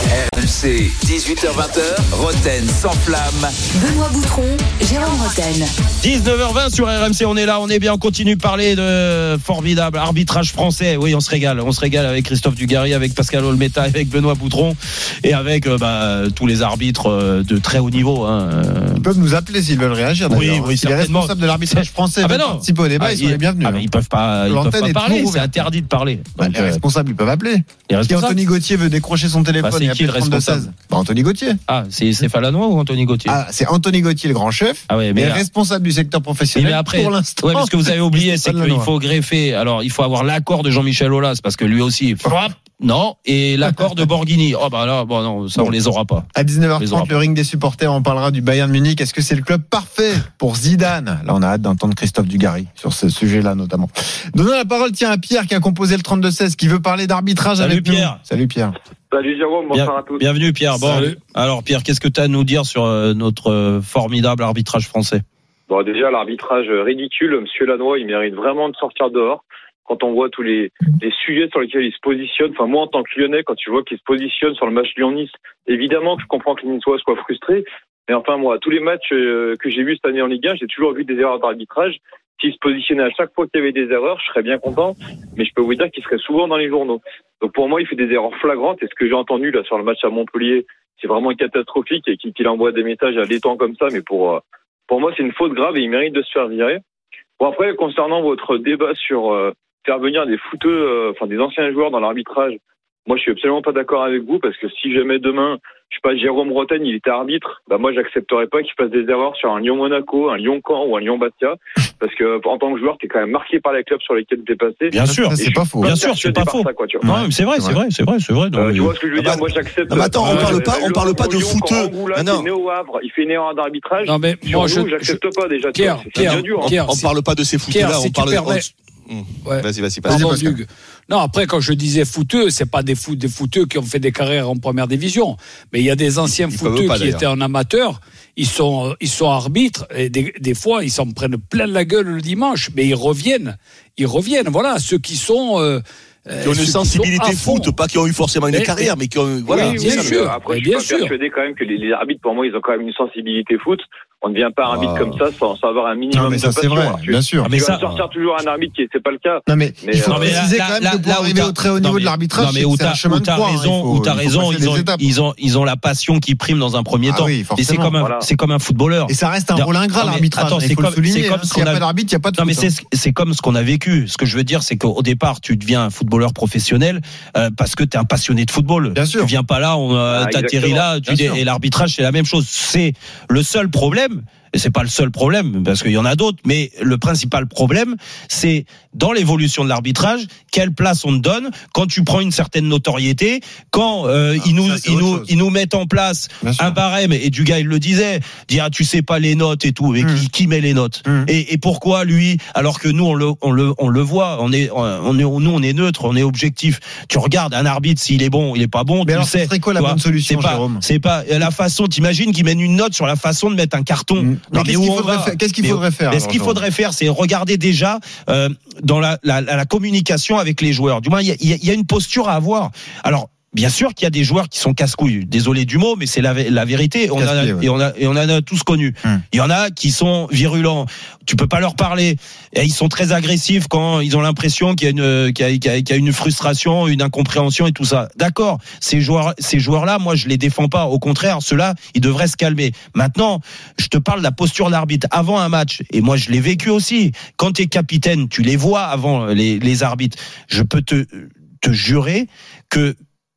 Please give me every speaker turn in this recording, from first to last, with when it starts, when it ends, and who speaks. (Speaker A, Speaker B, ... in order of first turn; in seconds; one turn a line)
Speaker A: 0.1-3.6
Speaker B: 3.7-5.7
Speaker C: 6.0-19.1
Speaker D: 19.0-23.9
Speaker C: 20.3-26.8
Speaker D: 24.5-25.7
Speaker D: 26.4-31.6
Speaker C: 27.9-28.4
Speaker C: 29.6-30.7
Speaker C: 31.7-33.4
Speaker D: 33.3-38.9
Speaker C: 34.9-35.4
Speaker C: 36.5-46.3
Speaker D: 46.3-58.7
Speaker C: 46.8-47.1
Speaker C: 57.6-58.2
Speaker E: 59.1-60.2
Speaker C: 59.7-65.2
Speaker F: 60.9-61.1
Speaker E: 65.7-96.8
Speaker E: 97.4-117.0
Speaker C: 114.9-119.0
Speaker D: 115.0-115.9
Speaker D: 117.0-117.8
Speaker E: 118.5-126.8
Speaker G: 119.2-122.5
Speaker F: 120.2-120.6
Speaker F: 124.0-125.2
Speaker F: 125.7-127.1
Speaker G: 126.1-130.6
Speaker F: 127.7-128.6
Speaker F: 129.4-147.7
Speaker G: 136.3-137.2
Speaker G: 146.4-150.4
Speaker F: 148.5-148.9
Speaker E: 149.5-160.4
Speaker F: 149.5-151.2
Speaker G: 154.6-155.2
Speaker D: 156.1-157.5
Speaker C: 157.4-157.9
Speaker D: 159.5-165.0
Speaker C: 160.1-171.8
Speaker D: 167.1-167.9
Speaker E: 168.0-168.2
Speaker D: 169.1-172.7
Speaker C: 172.4-252.9
Speaker D: 178.9-179.3
Speaker E: 180.1-180.9
Speaker D: 181.1-181.4
Speaker D: 194.4-195.3
Speaker D: 196.4-196.8
Speaker D: 200.0-200.3
Speaker D: 209.0-210.8
Speaker D: 214.2-216.6
Speaker D: 227.2-227.6